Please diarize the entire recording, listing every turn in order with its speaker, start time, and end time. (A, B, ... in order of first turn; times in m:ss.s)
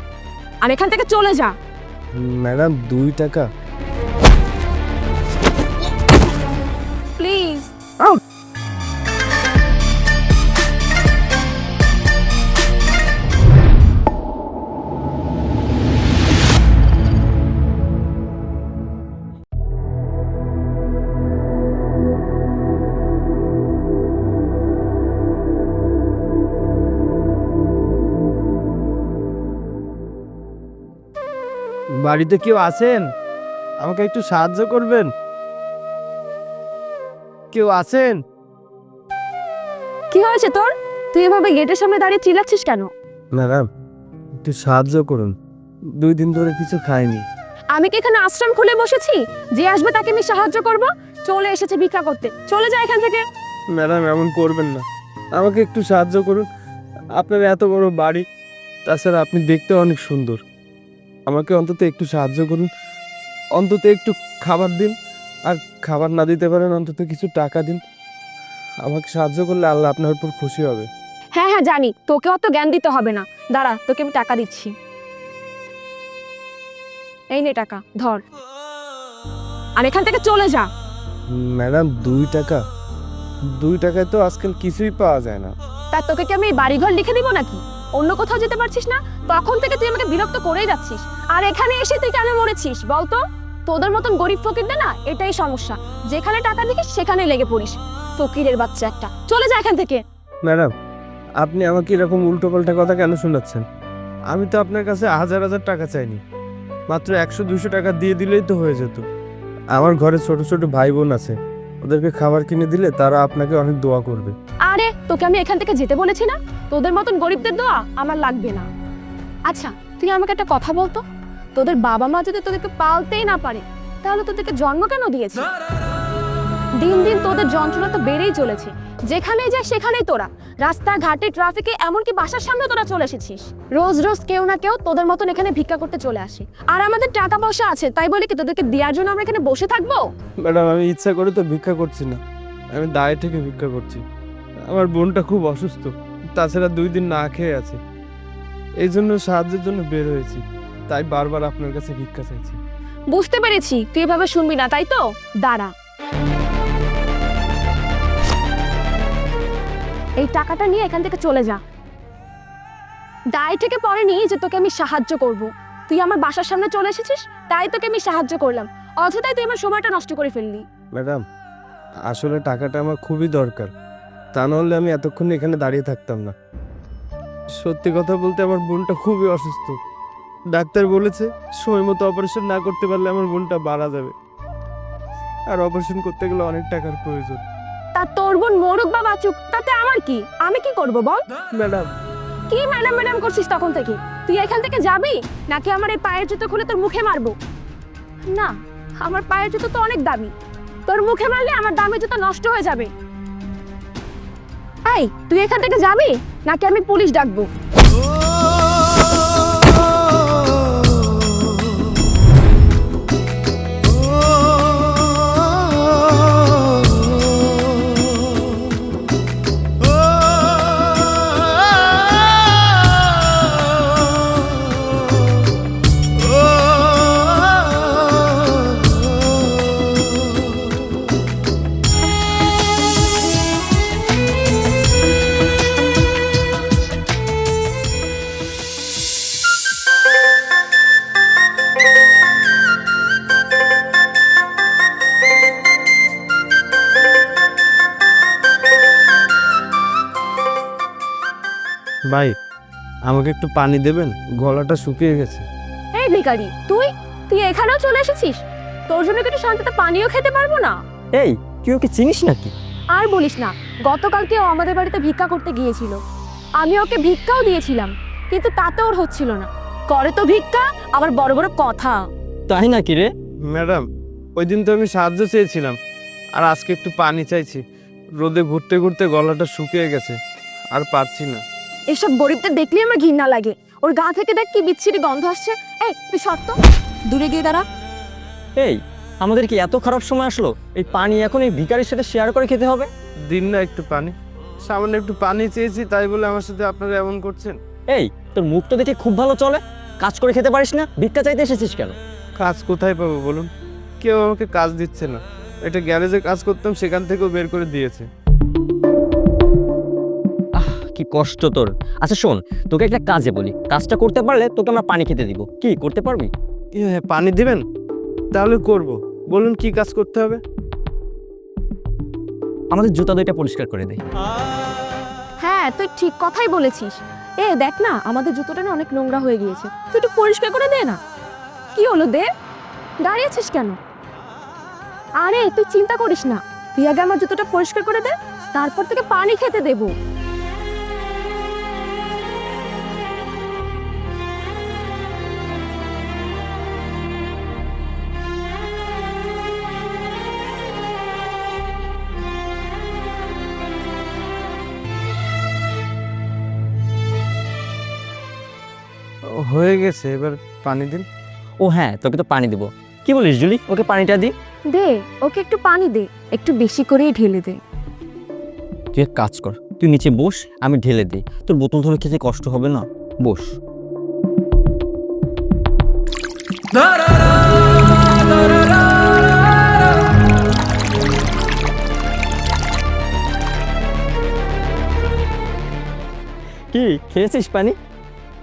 0:00.6-0:01.5 A
0:02.1-0:03.4 B
0:07.2-0:07.7 A
0:32.0-0:33.1 B
0:33.8-0:35.1 B
0:37.5-0:38.2 B
0:40.1-0:42.9 A
0:43.3-0:43.6 B
0:44.4-0:45.3 B
0:46.0-0:47.2 B
0:47.7-0:53.2 A
0:53.8-0:56.5 B
0:57.2-0:58.2 B
0:58.8-1:00.4 B
1:01.3-1:02.7 B
1:03.6-1:04.9 B
1:05.4-1:07.8 B
1:08.8-1:10.9 B
1:11.3-1:14.7 A
1:17.3-1:18.2 A
1:19.8-1:20.7 A
1:21.3-1:22.6 B
1:23.6-1:25.5 B
1:25.9-1:40.0 A
1:40.4-1:40.7 B
1:41.4-1:43.6 B
1:44.3-1:46.2 B
1:46.9-1:49.0 B
1:49.7-1:54.3 B
1:54.7-1:58.7 A
1:59.5-2:01.0 A
2:01.5-2:05.5 A
2:06.8-2:20.0 A
2:20.4-2:22.2 B
2:22.7-2:24.0 B
2:24.7-2:27.8 B
2:28.8-2:32.6 B
2:33.1-2:35.7 A
2:40.2-2:41.6 A
2:43.3-2:50.6 A
2:51.0-2:51.2 B
2:52.1-2:53.7 B
2:54.3-2:56.3 B
2:57.6-2:59.8 B
3:00.5-3:04.1 B
3:05.5-3:07.4 B
3:07.9-3:11.2 A
3:11.5-3:11.9 B
3:12.5-3:17.3 A
3:18.3-3:20.3 A
3:20.9-3:22.9 A
3:24.9-3:27.5 A
4:13.1-4:15.4 B
4:15.9-4:20.8 A
4:21.2-4:22.5 C
4:21.4-4:22.2 B
4:22.9-4:26.0 A
4:26.6-4:32.0 A
4:32.5-4:33.1 C
4:33.5-4:33.8 B
4:34.4-4:35.8 B
4:36.4-4:37.6 B
4:38.2-4:40.2 B
4:40.7-4:41.4 B
4:41.9-4:47.6 A
4:48.6-4:52.9 C
4:49.8-4:50.4 B
4:51.2-4:52.2 B
4:53.3-4:57.6 B
4:57.9-5:02.0 C
5:00.1-5:01.6 B
5:02.4-5:03.5 B
5:04.0-5:08.1 B
5:10.6-5:16.3 C
5:12.9-5:16.1 B
5:16.7-5:17.6 B
5:18.3-5:20.4 B
5:22.7-5:24.0 B
5:22.8-5:23.9 C
5:25.4-5:31.0 A
5:31.7-5:32.3 A
5:33.0-5:33.8 A
5:35.2-5:39.9 A
5:59.4-6:01.0 B
6:01.6-6:04.3 C
6:04.7-6:07.6 A
6:08.9-6:09.7 B
6:09.0-6:13.4 C
6:10.7-6:13.4 B
6:26.7-6:27.8 C
6:26.7-6:27.6 B